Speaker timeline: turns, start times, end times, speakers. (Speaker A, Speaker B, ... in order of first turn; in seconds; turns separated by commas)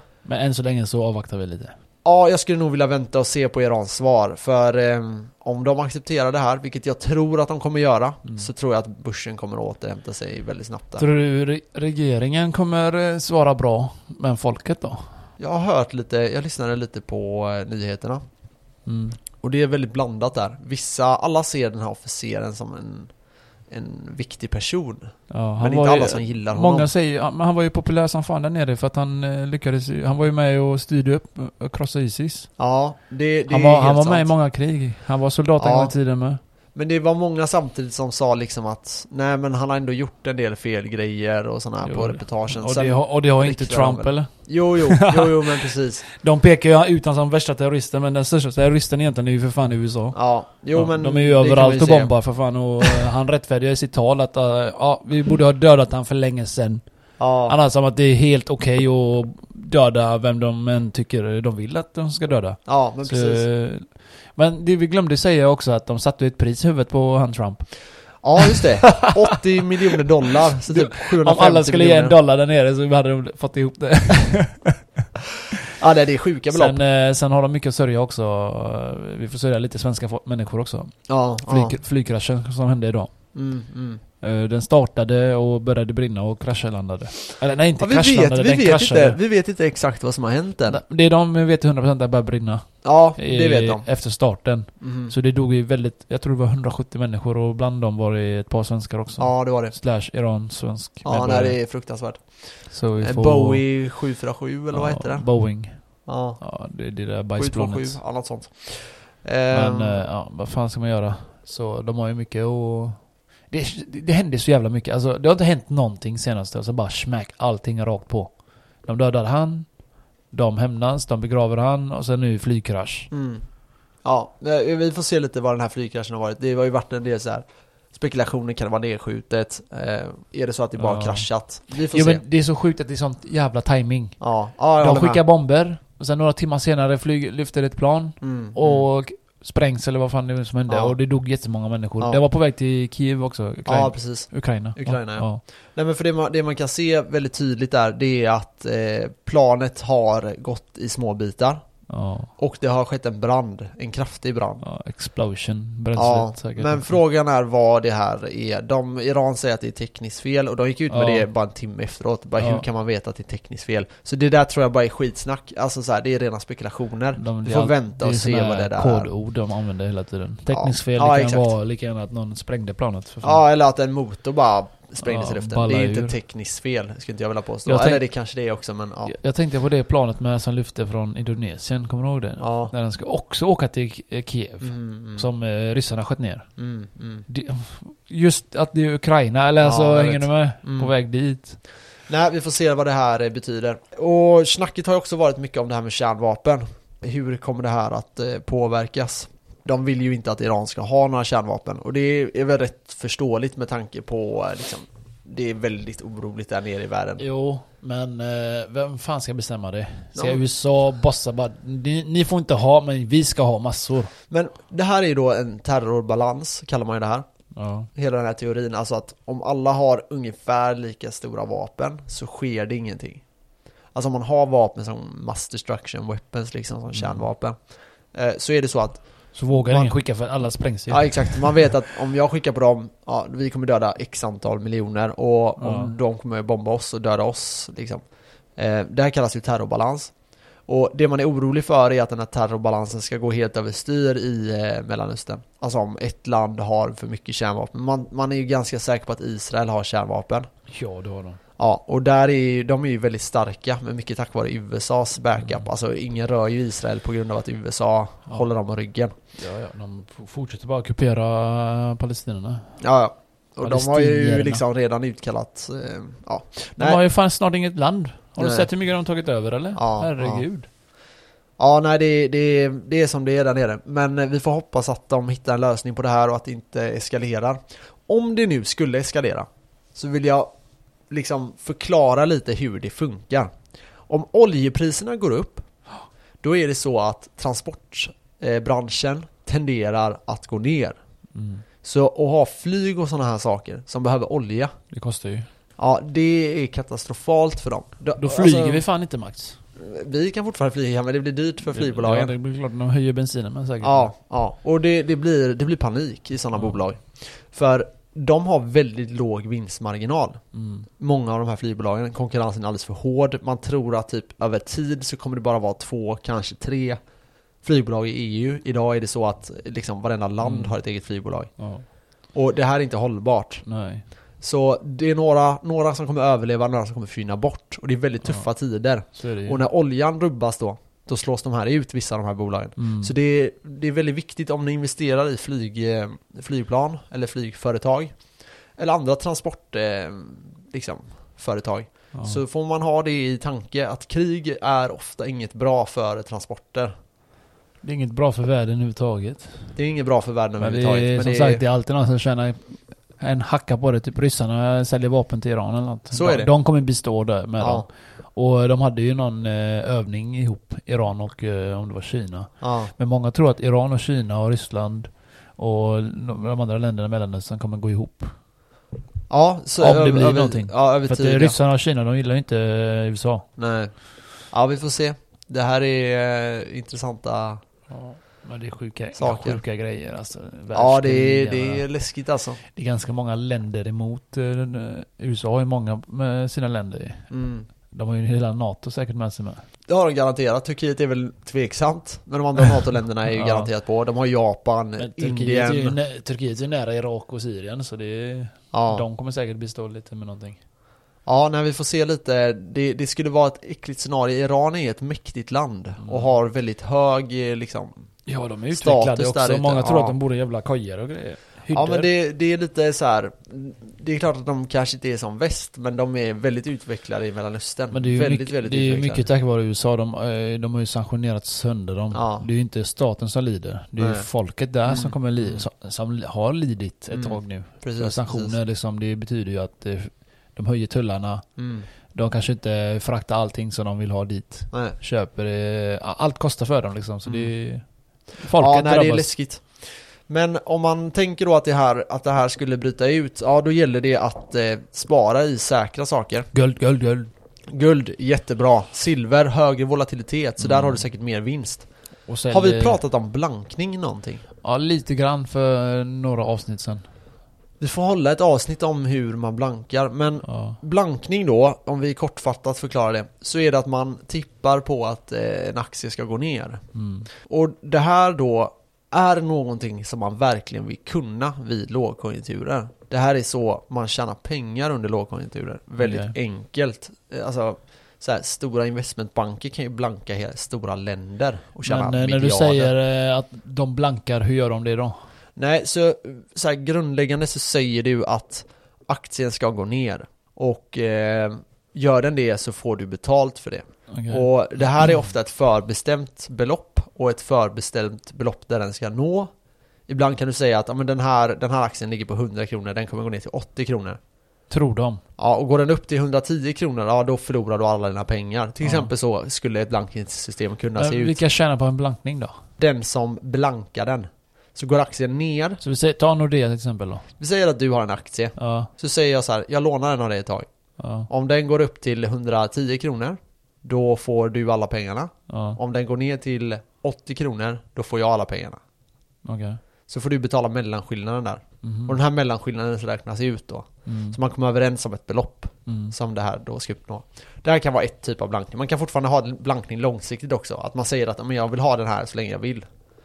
Speaker A: 0.2-1.8, Speaker B: 2.0-11.1, Speaker A: 11.0-15.3, Speaker B: 15.4-18.2, Speaker A: 18.8-19.2, Speaker B: 19.4-26.9, Speaker A: 25.3-32.5, Speaker B: 32.6-34.3, Speaker A: 33.5-36.4, Speaker B: 35.6-35.9, Speaker B: 36.7-46.0, Speaker A: 41.8-45.4, Speaker A: 46.1-69.1, Speaker B: 50.1-53.0, Speaker B: 57.2-57.5, Speaker B: 62.6-63.5, Speaker B: 68.2-72.2, Speaker A: 70.7-74.8, Speaker B: 75.7-76.8, Speaker A: 76.5-83.5, Speaker B: 81.1-81.8, Speaker B: 83.3-84.0, Speaker A: 84.2-89.2, Speaker B: 87.8-90.8, Speaker A: 90.7-101.7, Speaker B: 92.8-94.2, Speaker B: 94.8-95.1, Speaker B: 99.2-99.8, Speaker B: 101.0-106.4, Speaker A: 102.7-103.8, Speaker A: 104.7-108.0, Speaker B: 107.3-110.0, Speaker A: 109.5-123.1, Speaker B: 123.1-132.2, Speaker A: 130.8-145.4, Speaker B: 134.2-135.2, Speaker B: 138.2-138.9, Speaker B: 140.7-140.9, Speaker B: 143.7-154.6, Speaker A: 151.9-152.3, Speaker A: 154.6-157.0, Speaker B: 155.9-169.1, Speaker A: 160.9-161.3, Speaker A: 162.4-162.7, Speaker A: 167.2-173.4, Speaker B: 170.5-171.5, Speaker B: 173.2-179.1, Speaker A: 175.0-176.1, Speaker A: 177.6-178.1, Speaker A: 179.0-186.6, Speaker B: 182.4-182.7, Speaker B: 184.6-185.3, Speaker B: 186.6-187.2, Speaker A: 187.3-191.6, Speaker B: 189.6-191.4, Speaker B: 192.1-207.2, Speaker A: 207.2-214.1, Speaker B: 210.1-210.4, Speaker B: 214.3-217.3, Speaker A: 217.5-217.9, Speaker B: 217.9-223.2, Speaker B: 223.9-250.5, Speaker A: 226.9-227.3, Speaker A: 229.3-231.7, Speaker A: 235.6-235.9, Speaker A: 250.7-251.4, Speaker B: 251.6-259.1, Speaker A: 255.4-255.7, Speaker A: 259.3-262.8, Speaker B: 262.8-267.0, Speaker A: 263.6-264.6, Speaker A: 266.8-270.7, Speaker B: 268.4-268.7, Speaker B: 269.7-270.7, Speaker B: 271.6-280.5, Speaker B: 281.1-285.8, Speaker B: 286.4-291.0, Speaker A: 291.3-291.6, Speaker B: 291.8-294.8, Speaker A: 294.9-295.5, Speaker B: 295.8-298.8, Speaker A: 298.1-299.6, Speaker B: 299.8-302.3, Speaker A: 301.6-304.1, Speaker B: 303.8-310.4, Speaker A: 306.5-306.8, Speaker A: 310.5-310.9, Speaker B: 311.0-317.0, Speaker B: 317.6-323.6, Speaker A: 320.4-320.8, Speaker A: 321.6-321.9, Speaker A: 323.6-324.1, Speaker B: 324.4-346.9, Speaker A: 328.2-328.5, Speaker A: 329.0-329.6, Speaker A: 332.8-333.1, Speaker A: 342.1-342.4, Speaker A: 347.8-349.8, Speaker B: 349.7-351.6, Speaker A: 350.6-368.4, Speaker B: 356.1-356.5, Speaker B: 357.6-357.9, Speaker B: 362.6-362.9, Speaker B: 369.3-371.6, Speaker A: 369.8-373.5, Speaker B: 373.6-377.6, Speaker A: 377.9-381.9, Speaker B: 379.1-379.6, Speaker B: 380.7-382.6, Speaker A: 382.6-389.6, Speaker B: 387.3-387.7, Speaker B: 389.9-396.0, Speaker A: 393.3-393.7, Speaker A: 395.0-400.6, Speaker B: 398.7-399.1, Speaker B: 401.2-408.1, Speaker A: 406.0-406.3, Speaker A: 408.2-412.1, Speaker B: 408.7-410.2, Speaker B: 411.7-419.2, Speaker A: 417.9-439.3, Speaker B: 422.1-422.5, Speaker B: 424.0-424.3, Speaker B: 424.8-425.6, Speaker B: 427.1-428.6, Speaker B: 431.6-431.9, Speaker B: 434.7-434.9, Speaker B: 437.2-446.5, Speaker A: 446.5-447.3, Speaker B: 447.7-454.4, Speaker A: 450.6-451.1, Speaker A: 452.2-453.0, Speaker A: 454.6-457.1, Speaker B: 457.8-482.9, Speaker A: 460.4-460.8, Speaker A: 466.9-467.3, Speaker A: 476.0-476.4, Speaker A: 481.8-485.1, Speaker B: 485.6-499.5, Speaker A: 494.1-494.4, Speaker B: 500.1-504.2, Speaker A: 504.7-505.2, Speaker B: 505.4-511.4, Speaker A: 508.8-509.1, Speaker A: 510.9-512.6, Speaker B: 512.8-515.8, Speaker A: 515.8-517.3, Speaker B: 517.4-520.7, Speaker A: 518.6-518.9, Speaker A: 521.0-521.3, Speaker B: 521.2-528.8, Speaker A: 525.5-525.8, Speaker A: 529.4-529.8, Speaker B: 530.1-542.8, Speaker A: 531.8-532.1, Speaker A: 534.0-534.4, Speaker A: 535.9-536.1